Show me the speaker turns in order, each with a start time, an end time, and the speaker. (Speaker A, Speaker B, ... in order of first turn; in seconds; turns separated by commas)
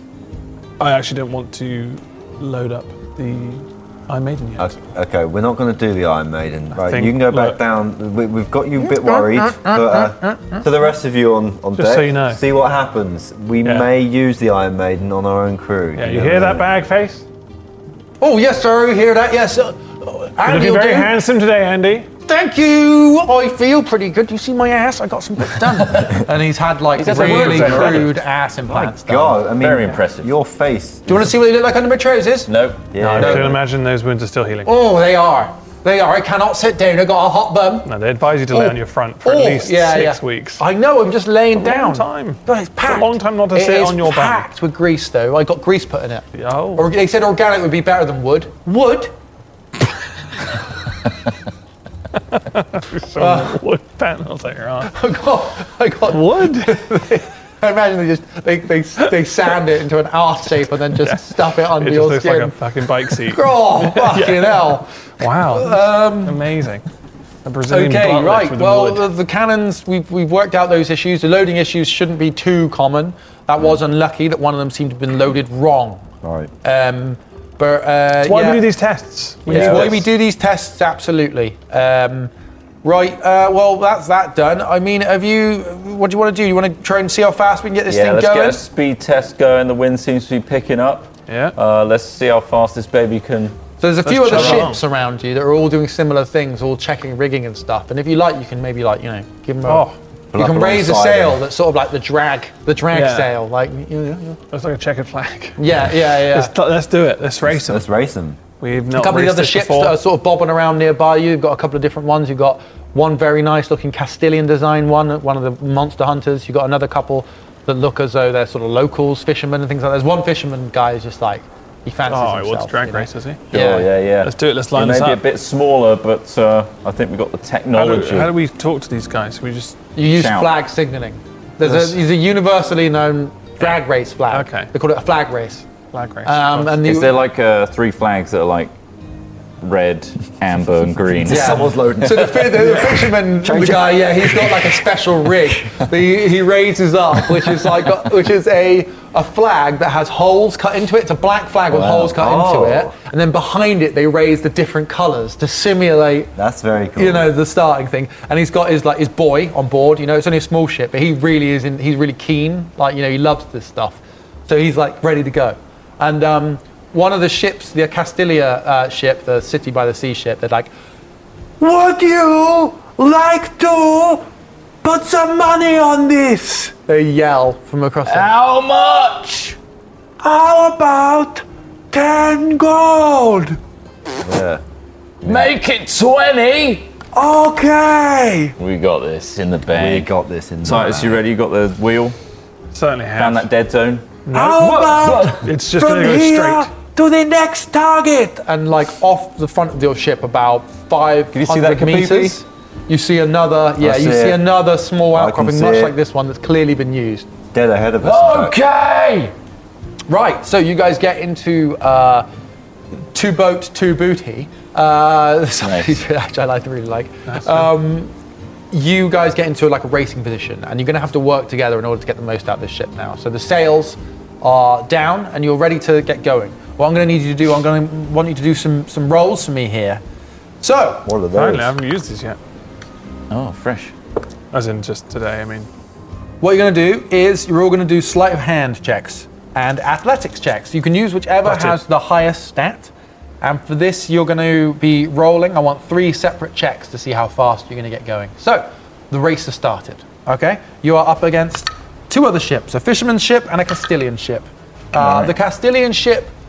Speaker A: 0.8-4.8, Speaker B: 4.6-16.7, Speaker A: 6.8-7.6, Speaker C: 8.8-10.6, Speaker A: 11.8-12.4, Speaker A: 13.6-13.9, Speaker A: 16.0-17.2, Speaker C: 18.2-21.1, Speaker A: 20.4-22.1, Speaker C: 22.3-29.4, Speaker D: 26.9-28.1, Speaker A: 27.1-28.1, Speaker B: 28.7-31.3, Speaker D: 29.6-30.3, Speaker C: 31.1-33.4, Speaker D: 32.5-33.4, Speaker B: 32.9-33.6, Speaker A: 33.0-34.7, Speaker C: 34.6-37.9, Speaker A: 37.9-40.6, Speaker C: 38.5-49.1, Speaker A: 41.5-44.5, Speaker A: 46.3-46.9, Speaker A: 52.3-54.9, Speaker C: 53.2-53.6, Speaker C: 54.9-64.9, Speaker A: 56.1-56.8, Speaker A: 61.0-66.8, Speaker C: 65.4-66.4, Speaker A: 67.5-69.0, Speaker C: 67.7-76.1, Speaker B: 76.2-76.5, Speaker C: 76.6-78.7, Speaker A: 78.2-80.0, Speaker C: 79.5-82.3, Speaker D: 79.5-80.0, Speaker C: 82.8-88.6, Speaker D: 87.9-93.6, Speaker A: 91.3-91.5, Speaker C: 93.8-104.4, Speaker A: 94.1-94.8, Speaker D: 94.3-94.7, Speaker A: 99.7-100.0, Speaker B: 100.3-101.4, Speaker A: 102.9-103.3, Speaker A: 104.5-107.9, Speaker C: 105.6-106.5, Speaker B: 107.5-108.4, Speaker A: 108.6-110.0, Speaker C: 108.9-123.9, Speaker A: 122.1-123.5, Speaker D: 123.5-128.3, Speaker A: 124.2-125.2, Speaker A: 127.7-129.8, Speaker C: 130.0-135.7, Speaker D: 130.1-130.5, Speaker A: 134.3-134.7, Speaker A: 135.9-136.8, Speaker C: 136.2-137.2, Speaker D: 136.8-138.7, Speaker D: 139.6-141.8, Speaker B: 141.2-144.7, Speaker C: 141.3-156.3, Speaker B: 151.7-152.9, Speaker B: 156.4-157.3, Speaker C: 157.0-170.7, Speaker C: 171.6-174.2, Speaker C: 174.8-178.3, Speaker D: 178.1-179.6, Speaker C: 180.2-183.6, Speaker B: 184.2-184.6, Speaker B: 185.2-185.5, Speaker D: 185.2-186.9, Speaker C: 187.1-188.6, Speaker D: 188.6-190.1, Speaker B: 189.7-191.1, Speaker D: 190.6-192.2, Speaker A: 192.7-193.5, Speaker D: 193.2-194.1, Speaker A: 194.3-196.7, Speaker C: 194.3-207.3, Speaker D: 195.0-195.3, Speaker D: 201.3-202.4, Speaker B: 203.8-204.4, Speaker B: 205.1-206.0, Speaker B: 207.5-208.6, Speaker D: 208.0-209.3, Speaker C: 210.1-212.3, Speaker C: 213.1-218.1, Speaker D: 215.6-216.0, Speaker A: 217.3-217.7, Speaker C: 218.7-230.0, Speaker C: 230.6-231.1, Speaker B: 231.1-231.7, Speaker A: 231.3-232.4, Speaker D: 233.3-233.9, Speaker A: 234.5-235.7, Speaker C: 236.4-256.3, Speaker A: 241.5-241.8, Speaker D: 255.0-255.3